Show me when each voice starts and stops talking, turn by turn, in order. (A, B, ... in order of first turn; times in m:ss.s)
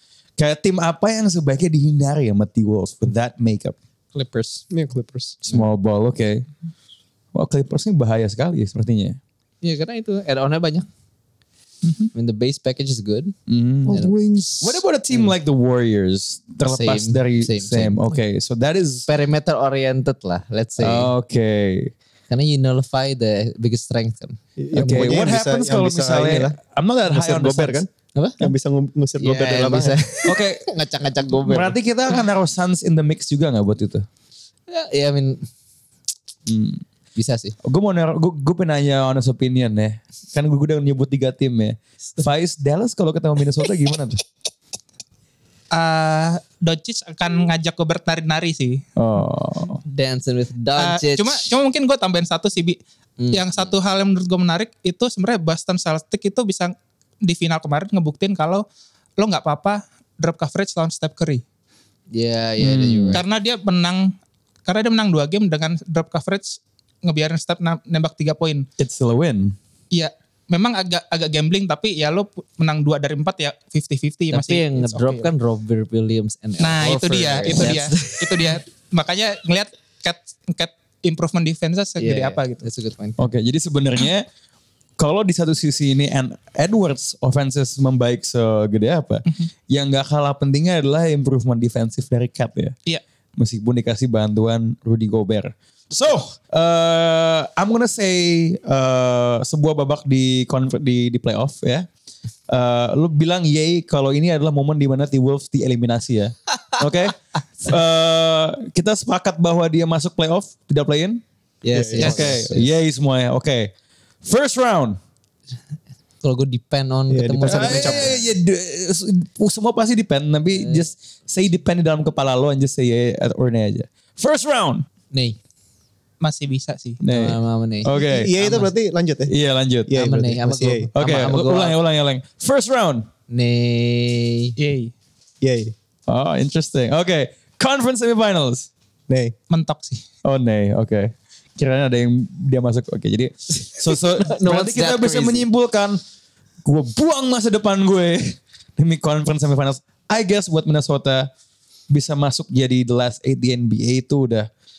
0:00.4-0:03.8 A
0:04.1-0:04.7 B
0:04.7-0:05.4 C
0:05.4-0:06.4 A
0:07.3-0:09.2 A
0:09.6-0:10.9 B
0:11.8-0:12.1 D
0:12.1-0:13.4 B
0:13.5-0:19.1 A
0:13.9-0:14.2 B
0:14.0-0:14.4 C
0:16.6-0:18.2 B
0:19.1-0:21.1 B
0:20.8-0:21.9 A
0:22.3-0:24.4 B
0:24.6-0:30.0 C
0:24.7-0:27.8 A
0:28.2-0:28.5 B
0:29.2-0:31.8 B
0:30.3-0:30.6 A
0:31.4-0:34.1 A
0:34.7-0:35.4 B
0:36.5-0:36.8 A
0:37.2-0:37.6 B
0:37.6-0:44.2 A
0:45.7-0:48.8 D
0:49.0-0:49.8 A
0:49.8-0:51.6 B
0:50.8-0:52.8 D
0:53.2-0:53.7 B
0:53.3-0:58.6 D
0:59.2-1:01.4 D
1:02.1-1:03.2 B
1:02.6-1:03.2 A
1:03.1-1:08.7 D
1:08.8-1:09.6 A
1:09.9-1:15.3 D
1:14.3-1:18.5 B
1:16.6-1:22.7 D
1:22.0-1:23.2 B
1:23.2-1:24.3 A
1:25.0-1:32.8 A
1:33.4-1:41.9 A
1:42.5-1:51.2 A
1:51.6-1:52.8 B
1:51.7-1:52.3 C
1:52.0-1:53.7 A
1:54.2-1:55.0 A
1:56.2-1:58.3 B
1:57.1-1:58.2 C
1:57.5-2:04.9 A
2:00.6-2:00.9 B
2:05.1-2:05.4 B
2:06.2-2:07.0 D
2:07.0-2:08.3 A
2:07.1-2:08.7 B
2:08.0-2:09.3 C
2:09.3-2:10.0 A
2:09.9-2:10.9 C
2:09.9-2:11.8 B
2:10.9-2:13.1 A
2:13.3-2:14.6 B
2:14.6-2:14.9 D
2:15.4-2:15.7 C
2:16.1-2:18.7 A
2:19.1-2:19.4 C
2:19.5-2:20.0 D
2:20.2-2:26.0 A
2:24.0-2:25.5 B
2:26.6-2:31.3 A
2:31.9-2:34.5 A